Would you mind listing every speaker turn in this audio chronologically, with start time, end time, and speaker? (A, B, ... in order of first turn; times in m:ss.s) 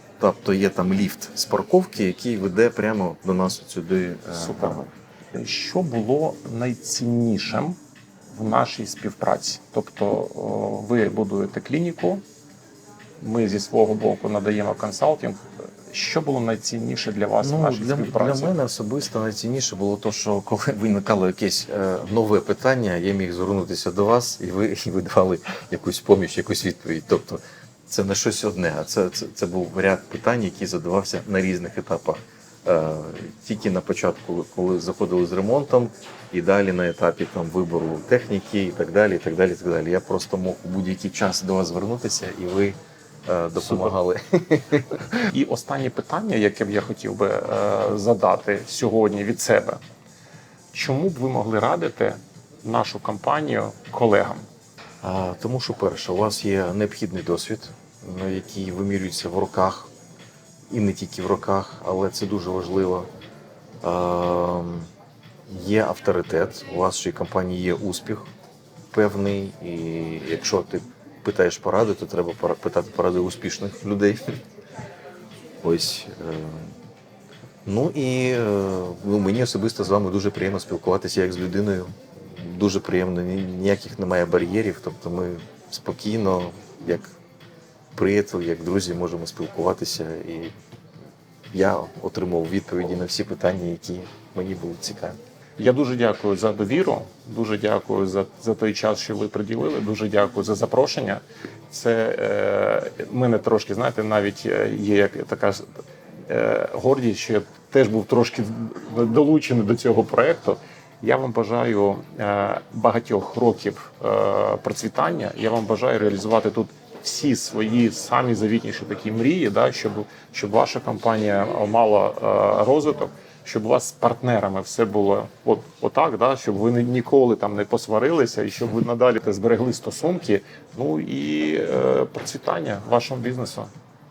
0:00.2-0:04.9 A
0:04.3-0:07.8 B
0:08.3-0:12.2 B
0:13.2-0:18.6 B
0:17.4-0:45.3 A
0:45.3-0:49.8 B
0:50.7-0:54.4 B
0:55.0-0:59.9 A
1:00.7-1:03.1 A
1:03.8-1:04.9 A
1:05.5-1:08.3 A
1:08.9-1:14.4 A
1:15.6-1:16.7 A
1:17.6-1:27.1 A
1:27.9-1:30.5 A
1:31.5-1:35.2 A
1:35.6-1:45.7 B
1:46.3-2:13.7 B